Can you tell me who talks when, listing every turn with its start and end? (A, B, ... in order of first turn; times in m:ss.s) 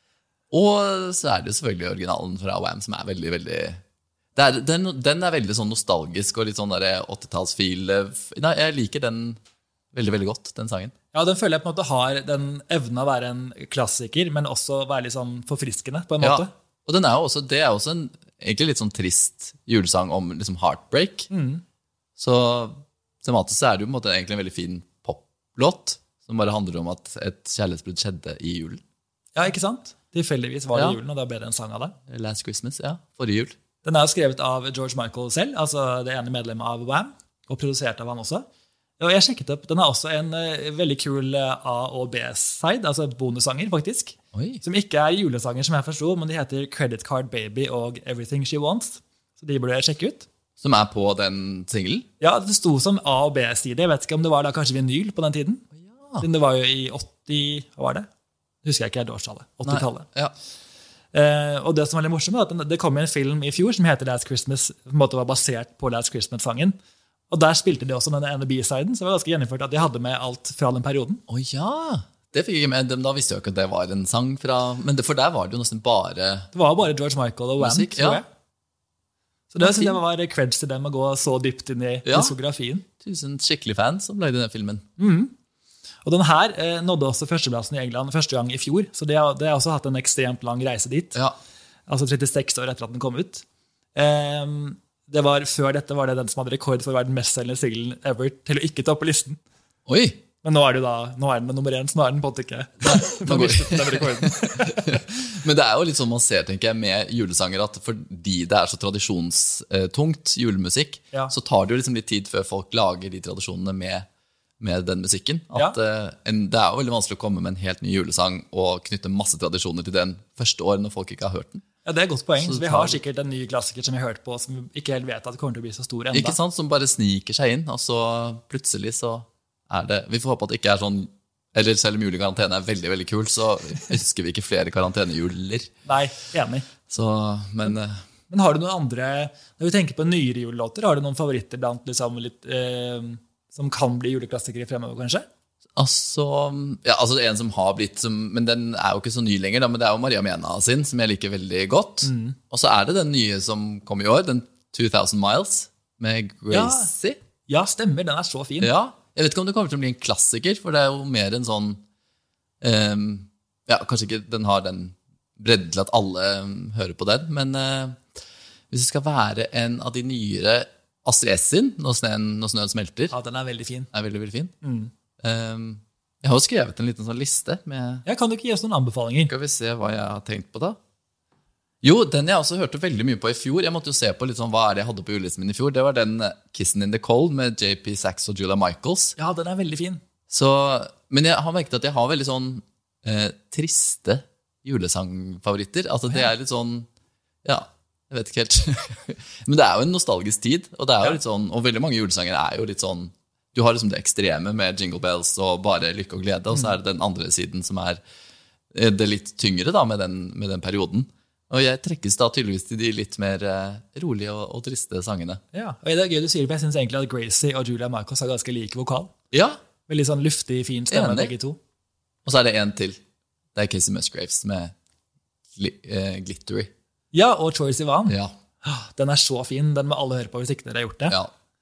0:00.5-0:03.8 A
0:04.4-0:09.4 A
0:09.9-0:10.9 A
0:11.1-0:16.5 B
0:16.2-0:21.3 A
0:21.3-0:21.6 B
0:22.2-0:28.8 A
0:29.4-0:32.0 B
0:30.7-0:31.0 A
0:32.1-0:33.6 A
0:33.8-0:38.4 B
0:39.0-0:50.3 B
0:44.3-0:44.6 A
0:50.6-0:52.1 A
0:52.2-0:55.7 B
0:56.0-0:56.2 A
0:56.2-0:58.1 B
0:58.6-1:00.1 B
0:59.6-1:00.3 A
1:01.1-1:06.8 B
1:07.3-1:11.2 B
1:11.3-1:16.5 A
1:16.5-1:18.3 B
1:17.6-1:18.2 A
1:19.5-1:22.9 B
1:19.6-1:20.0 A
1:22.0-1:22.4 A
1:23.0-1:24.8 A
1:25.0-1:25.3 B
1:26.0-1:31.2 B
1:31.9-1:39.4 B
1:39.9-1:40.2 A
1:40.4-1:45.0 B
1:42.8-1:54.1 A
1:54.6-2:01.6 A
2:01.8-2:06.4 B
2:02.4-2:03.0 A
2:06.1-2:15.7 A
2:15.9-2:16.7 B
2:16.9-2:18.0 A
2:18.3-2:25.3 B
2:25.8-2:37.2 A
2:32.0-2:32.4 B
2:36.5-2:36.9 B
2:37.5-2:38.7 B
2:38.6-2:41.8 A
2:42.6-2:48.0 A
2:48.7-2:53.1 A
2:53.1-2:53.9 B
2:53.9-2:54.5 A
2:54.6-2:54.9 B
2:55.2-2:58.0 A
2:58.0-2:59.3 B
2:59.3-3:00.8 A
3:01.8-3:09.2 A
3:09.2-3:10.0 B
3:10.3-3:16.9 A
3:17.4-3:28.0 A
3:28.7-3:35.4 A
3:35.5-3:39.1 B
3:39.3-3:39.6 A
3:39.9-3:41.6 B
3:40.9-3:41.3 A
3:42.2-3:43.0 A
3:43.6-3:44.7 A
3:45.6-3:46.7 A
3:47.1-3:51.2 B
3:48.1-3:48.3 A